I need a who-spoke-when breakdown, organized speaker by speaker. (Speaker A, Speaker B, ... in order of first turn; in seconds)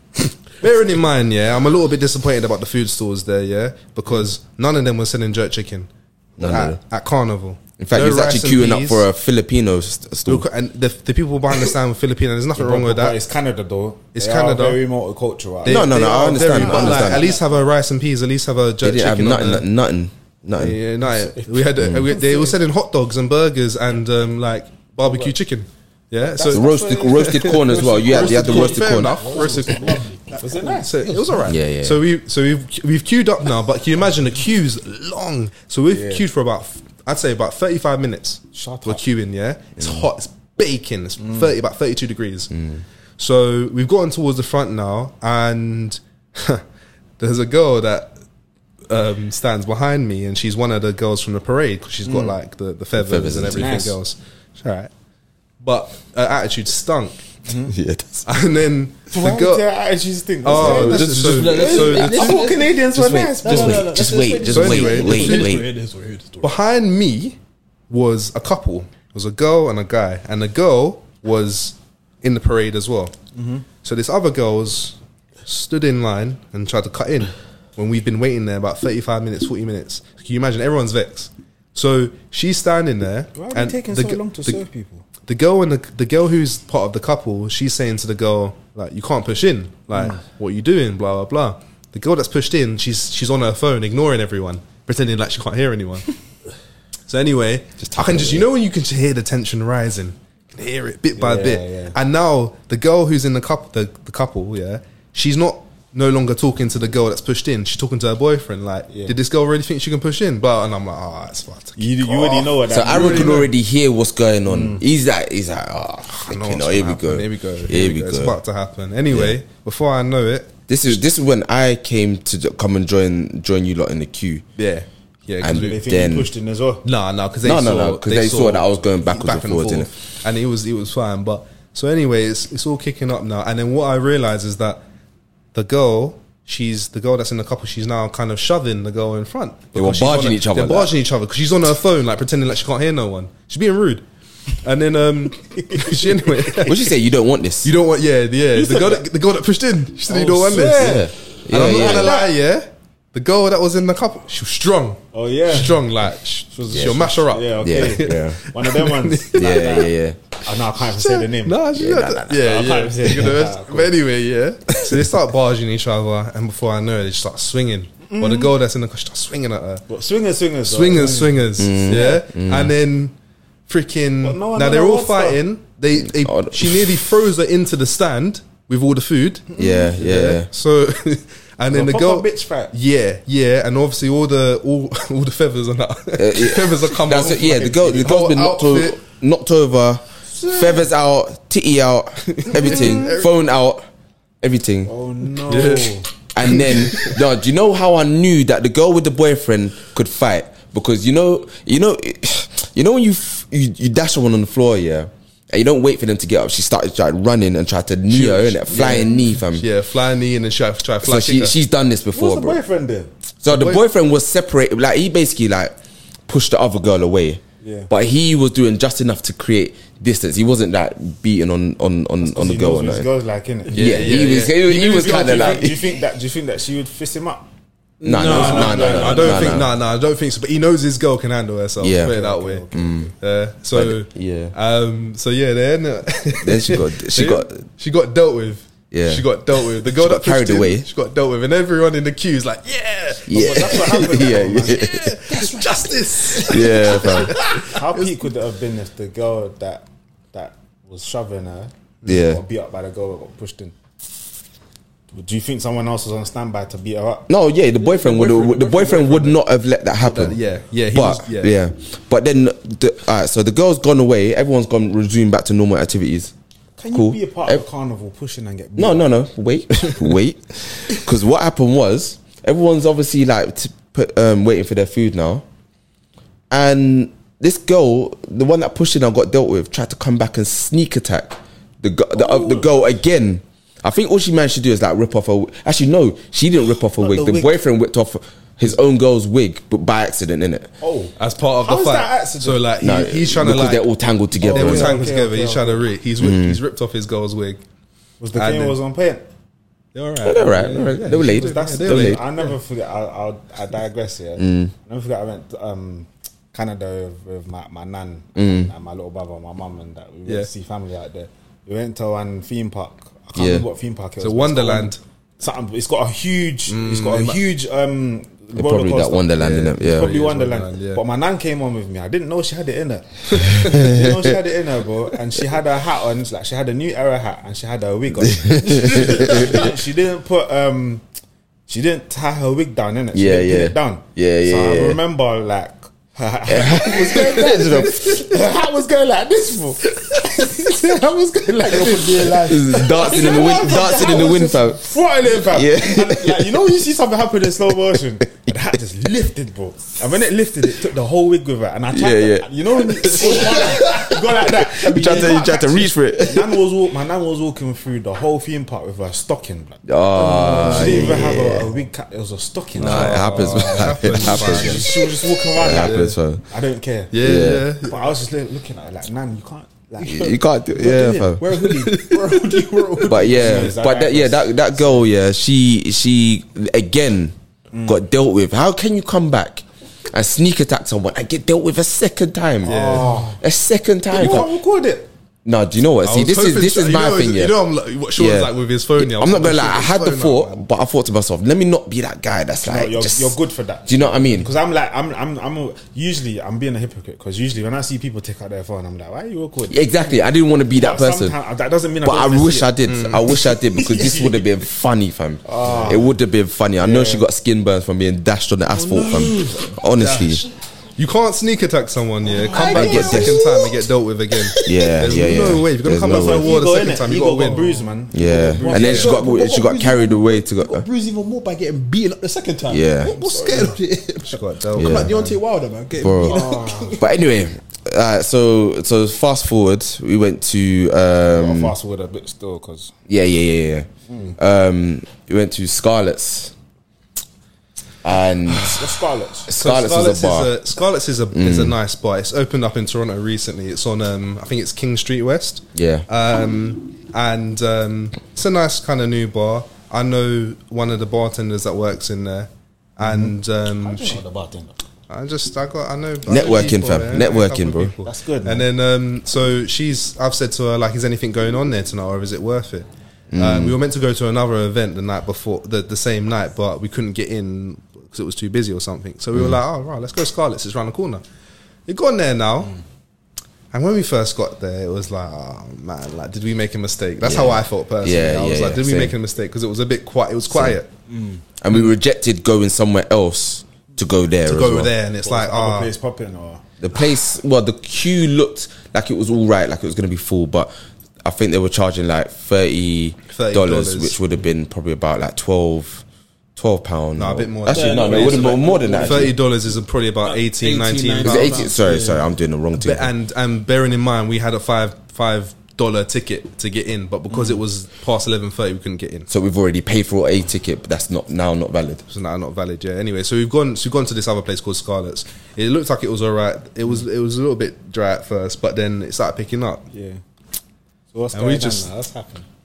Speaker A: 0.5-9.1, 10.3-13.2, 14.1-14.8, 15.6-19.7, 20.6-30.0, 30.7-42.5, 43.2-46.6, 47.2-48.1, 48.9-54.9, 55.6-57.2, 58.3-59.6, 60.4-62.4, 64.5-65.5, 66.4-67.4, 67.9-73.1, 73.8-84.6, 85.2-96.2, 97.1-113.5, 116.2-120.5, 124.6-125.8, 126.8-134.8, 135.5-144.0, 144.6-146.9, 147.6-159.9, 160.8-169.8, 170.6-173.1, 173.7-189.0, 192.3-193.3, 195.4-197.2, 208.1-211.6, 213.5-213.8, 223.7-225.6, 228.3-232.7, 233.2-248.3, 260.0-261.5, 291.2-293.9, 294.5-297.6, 298.3-298.8, 299.9-302.6, 314.2-315.0, 316.7-317.4, 319.4-321.0, 323.4-323.8, 362.8-366.2, 367.1-368.1, 371.6-372.9, 382.6-383.3, 386.0-390.6, 402.9-403.4, 411.0-417.8, 418.7-419.1, 424.2-425.4, 439.5-454.2, 455.1-471.2, 471.9-472.8, 473.7-480.9, 484.5-485.9, 493.3-494.2, 497.2-501.7, 502.7-509.3, 512.1-519.8, 521.3-521.9
Speaker B: 6.4-6.8, 7.8-10.4, 15.7-17.3, 18.8-20.8, 21.8-22.1, 26.5-29.2, 31.5-32.0, 39.8-40.1, 42.5-42.8, 52.9-53.9, 57.7-58.3, 60.5-62.3, 62.9-65.7, 97.8-98.5, 112.7-118.4, 119.1-119.4, 120.7-124.4, 125.4-126.3, 127.4-129.9, 139.8-140.9, 146.6-147.7, 150.7-152.2, 157.6-158.4, 159.3-160.2, 161.8-162.3, 171.6-172.7, 176.0-177.0, 179.6-180.5, 186.2-193.9, 194.4-194.9, 196.3-209.7, 211.0-212.6, 213.4-215.8, 216.3-223.1, 223.7-225.9, 228.0-229.7, 231.8-232.2, 232.7-233.1, 233.7-234.5, 236.4-237.6, 238.9-239.3, 239.8-240.9, 243.3-245.2, 246.4-247.4, 252.1-252.4, 257.3-260.4, 260.9-266.3, 266.9-267.7, 268.8-275.4, 276.5-290.7, 292.8-295.0, 296.2-296.6, 300.2-302.2, 304.4-304.7, 308.4-308.7, 313.4-313.7, 318.5-320.1, 323.5-324.4, 328.2-329.7, 333.1-335.0, 336.5-338.3, 341.7-346.6, 347.8-348.5, 351.9-356.6, 359.9-361.7, 362.8-365.0, 365.6-366.4, 367.2-367.7, 370.0-371.5, 373.1-377.3, 377.9-384.5, 385.4-387.6, 388.2-394.5, 399.7-401.4, 402.0-410.5, 412.7-413.4, 414.6-416.6, 418.1-420.9, 422.7-423.2, 424.8-425.1, 426.0-426.4, 427.0-431.8, 433.1-433.9, 434.4-436.5, 438.0-438.8, 439.5-440.5, 441.3-441.8, 445.8-446.1, 456.3-457.9, 463.3-463.8, 469.3-469.6, 477.2-479.1, 480.5-480.8, 481.6-484.9, 486.8-490.7, 491.2-496.0, 496.6-499.4, 501.2-503.1, 509.3-512.0
Speaker C: 12.6-17.6, 21.1-22.5, 25.0-25.3, 26.3-27.8, 30.4-30.9, 35.9-36.2, 38.5-39.0, 41.2-41.5, 52.1-52.3, 53.5-54.0, 57.5-57.7, 59.1-65.4, 73.3-73.7, 83.3-85.0, 101.2-102.0, 111.8-113.5, 114.5-114.8, 125.5-126.8, 145.6-146.7, 148.6-149.0, 150.1-152.3, 155.1-155.9, 156.5-159.9, 160.4-161.6, 162.2-163.9, 168.1-168.5, 169.9-172.2, 174.2-175.4, 179.5-180.0, 181.7-182.7, 190.3-190.9, 192.6-193.1, 194.8-196.1, 212.1-213.1, 217.6-217.9, 222.2-227.5, 228.2-229.6, 232.0-233.1, 243.3-245.5, 247.7-253.8, 255.1-257.3, 266.8-269.1, 282.2-282.7, 287.0-287.5, 290.8-292.7, 294.4-295.9, 298.2-299.3, 300.6-331.0, 331.7-359.8, 360.4-371.3, 373.2-374.6, 377.7-378.0, 382.6-383.4, 384.1-385.1, 392.6-399.8, 400.7-402.7, 403.3-404.5, 405.4-406.1, 406.8-407.3, 408.7-409.7, 412.2-413.3, 415.9-419.2, 423.2-423.8, 426.2-427.1, 431.3-432.9, 434.1-434.4, 438.5-439.5, 453.0-454.8, 458.0-458.7, 481.1-481.4, 485.2-486.6, 507.3-507.6, 519.9-520.2, 521.1-522.5
Speaker D: 27.7-31.4, 61.0-62.8, 63.4-66.5, 225.1-225.7, 228.0-229.6, 245.3-246.7, 257.8-259.4, 354.9-355.5, 360.2-361.4, 371.4-373.8, 408.9-410.3, 412.3-413.8, 414.4-414.7, 417.6-417.8, 418.6-427.1, 497.7-499.4, 500.2-502.3